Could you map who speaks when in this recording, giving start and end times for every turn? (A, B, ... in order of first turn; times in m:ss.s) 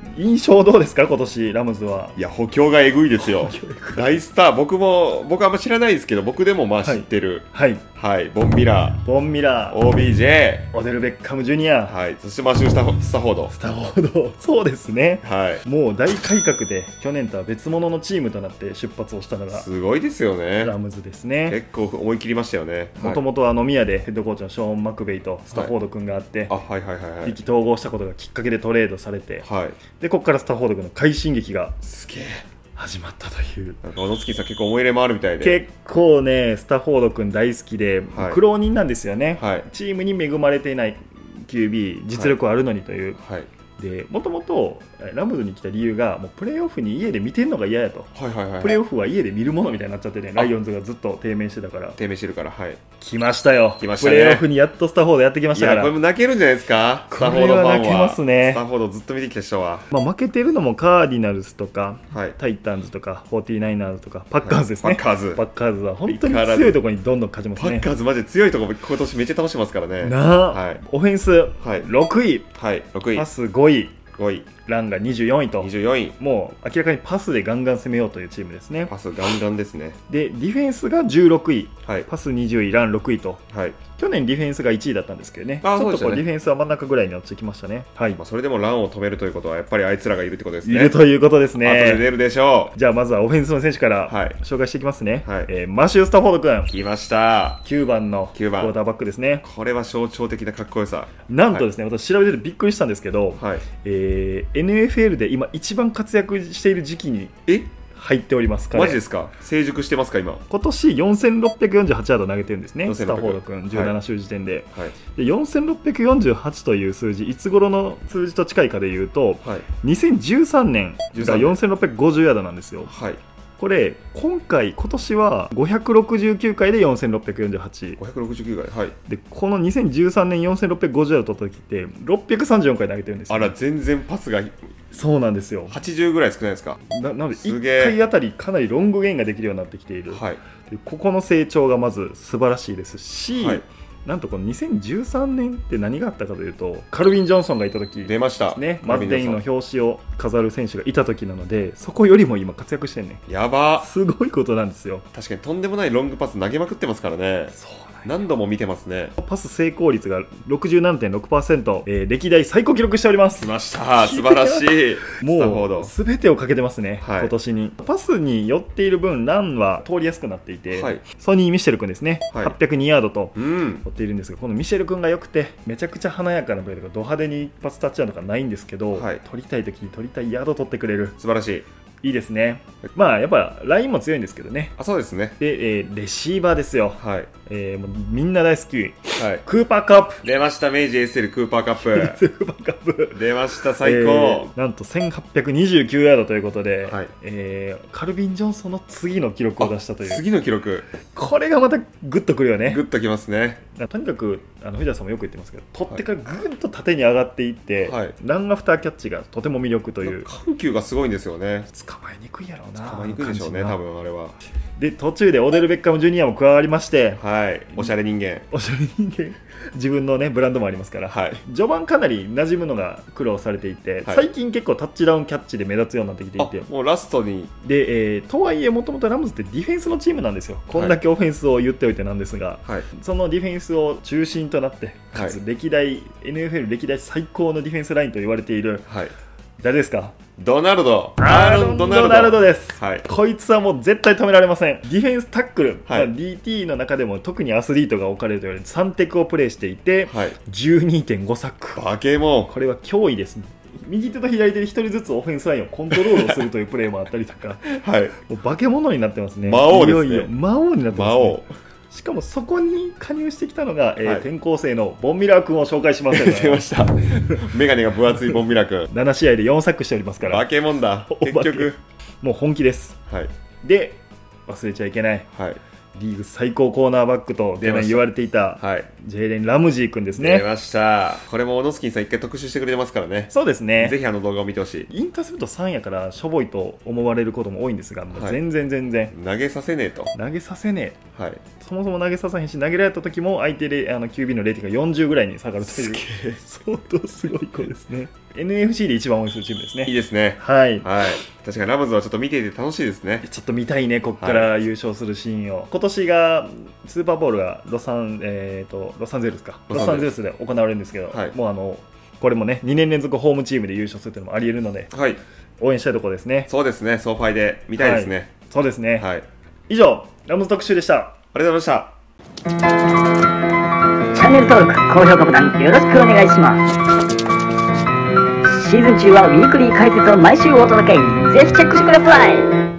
0:00.2-0:02.2 A
0:02.2-0:09.0 B
0:03.2-0:04.2 A
0:06.8-0:07.8 A
0:09.0-0:09.8 A
0:09.7-0:10.7 B
0:10.7-0:12.0 A
0:11.9-0:13.5 B
0:13.5-0:19.7 A
0:15.2-0:15.6 B
0:19.5-0:20.7 B
0:20.6-0:21.6 A
0:21.5-0:23.2 B
0:23.0-0:26.5 A
0:26.5-0:27.4 B
0:27.2-0:29.5 A
0:29.4-0:29.8 B
0:30.0-0:31.8 A
0:31.8-0:32.4 B
0:32.8-0:33.8 A
0:33.8-0:35.6 B
0:35.4-0:43.2 A
0:38.1-0:38.4 B
0:39.4-0:39.7 B
0:43.2-0:43.5 B
0:43.8-0:52.0 A
0:48.2-0:48.8 B
0:52.0-0:52.8 B
0:53.0-0:55.9 A
0:53.8-0:54.5 B
0:55.5-0:59.9 B
0:57.1-0:58.6 A
0:59.9-1:07.9 A
1:02.1-1:02.4 B
1:04.4-1:05.4 B
1:06.1-1:06.8 B
1:07.6-1:10.8 B
1:10.0-1:12.5 A
1:11.6-1:11.9 B
1:12.6-1:13.3 B
1:13.1-1:14.0 A
1:14.2-1:14.5 B
1:14.6-1:18.9 A
1:15.6-1:16.2 B
1:18.9-1:20.0 B
1:20.1-1:28.2 A
1:23.5-1:23.8 B
1:25.6-1:26.2 B
1:28.2-1:31.0 B
1:30.6-1:32.1 A
1:31.6-1:32.8 B
1:32.7-1:36.7 A
1:34.1-1:34.4 B
1:36.7-1:37.6 B
1:37.6-1:39.4 A
1:38.4-1:38.7 B
1:39.4-1:41.6 B
1:41.3-1:47.4 A
1:43.4-1:43.6 B
1:47.9-1:49.0 A
1:48.7-1:50.4 B
1:50.5-2:02.9 A
1:52.8-1:54.0 B
2:01.1-2:01.6 B
2:02.9-2:03.2 B
2:03.6-2:08.0 A
2:08.0-2:09.0 B
2:09.0-2:13.6 A
2:13.3-2:14.7 B
2:14.9-2:15.8 A
2:15.7-2:16.8 B
2:16.9-2:33.2 A
2:17.4-2:18.0 B
2:20.1-2:20.4 B
2:23.4-2:23.6 B
2:28.0-2:29.4 B
2:33.3-2:33.9 B
2:33.8-2:35.0 A
2:35.1-2:39.2 B
2:37.5-2:38.1 A
2:39.2-3:01.2 A
2:43.4-2:45.9 B
2:47.0-2:47.3 B
2:50.7-2:51.0 B
2:53.4-2:53.8 B
2:58.9-2:59.2 B
3:01.2-3:01.6 B
3:02.0-3:04.8 A
3:04.8-3:05.4 B
3:05.4-3:10.2 A
3:07.0-3:07.3 B
3:09.2-3:09.4 B
3:10.2-3:12.2 B
3:11.8-3:20.2 A
3:13.1-3:14.5 B
3:19.6-3:20.9 B
3:21.1-3:22.8 A
3:22.7-3:23.6 B
3:23.7-3:30.3 A
3:27.8-3:28.2 B
3:30.0-3:31.7 B
3:31.7-3:33.8 A
3:32.8-3:34.4 B
3:34.8-3:37.2 A
3:37.2-3:38.5 B
3:38.5-3:46.7 A
3:41.1-3:41.4 B
3:46.4-3:47.5 B
3:47.6-3:58.9 A
3:50.7-3:51.0 B
3:58.9-3:59.1 B
3:59.6-4:00.2 A
4:00.4-4:03.1 B
4:01.2-4:11.8 A
4:10.1-4:10.4 B
4:11.8-4:12.5 B
4:12.5-4:17.7 A
4:15.9-4:16.4 B
4:17.7-4:18.2 B
4:18.2-4:26.7 A
4:19.5-4:20.3 B
4:20.9-4:21.5 B
4:26.1-4:28.9 B
4:28.9-4:30.5 A
4:30.2-4:31.8 B
4:31.1-4:33.0 A
4:33.6-4:35.3 A
4:35.3-4:35.6 B
4:36.0-4:40.5 A
4:37.6-4:38.1 B
4:38.6-4:38.9 B
4:40.2-4:44.9 B
4:43.3-4:44.0 A
4:44.9-4:49.2 A
4:48.1-4:48.4 B
4:49.1-4:50.1 B
4:50.1-4:51.0 A
4:51.2-4:51.4 B
4:51.6-5:00.9 A
4:55.6-4:56.4 B
4:59.8-5:03.2 B
5:03.2-5:14.9 A
5:04.2-5:04.6 B
5:09.7-5:10.1 B
5:14.9-5:15.2 B
5:15.6-5:16.5 A
5:16.5-5:18.3 B
5:17.8-5:19.1 A
5:19.0-5:19.3 B
5:19.7-5:21.2 A
5:21.3-5:21.9 B
5:24.1-5:26.7 C
5:28.4-5:32.6 C